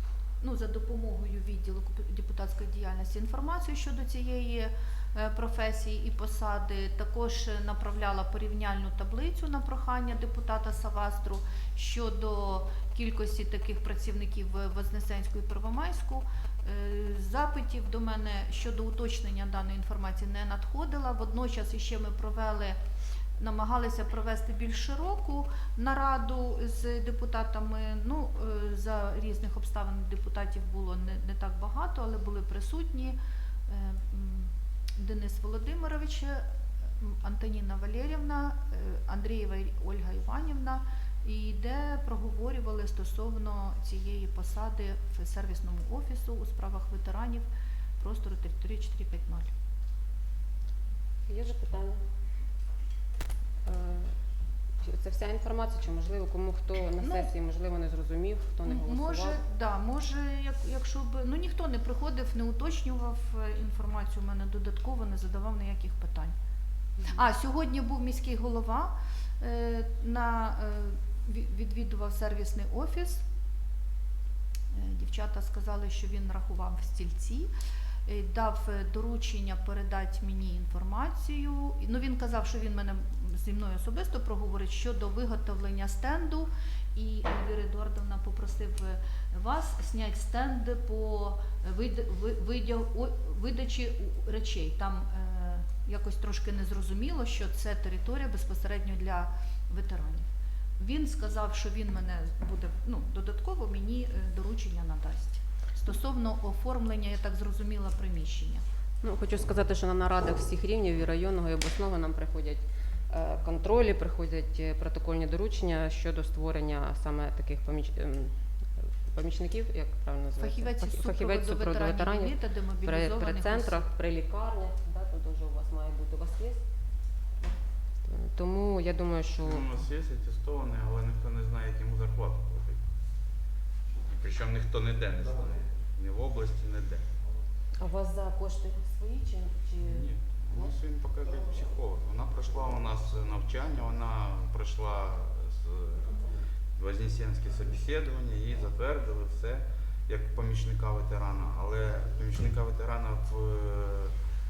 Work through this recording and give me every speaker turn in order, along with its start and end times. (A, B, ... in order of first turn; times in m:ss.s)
0:00.4-0:22.8 A
0:23.4-0:36.4 A
0:37.0-0:47.5 A
0:48.0-0:49.5 A
0:51.3-0:52.0 B
0:53.6-0:54.1 B
0:54.8-0:59.4 B
0:57.0-0:57.3 A
0:58.6-1:06.3 A
1:07.1-1:13.2 A
1:14.7-1:17.5 A
1:18.0-1:40.3 A
1:40.8-1:48.6 A
1:49.0-2:06.6 B
2:00.4-2:03.8 A
2:08.0-2:09.6 B
2:09.4-2:12.8 C
2:14.0-2:17.0 C
2:17.8-2:21.6 B
2:19.8-2:26.2 C
2:26.8-2:34.1 C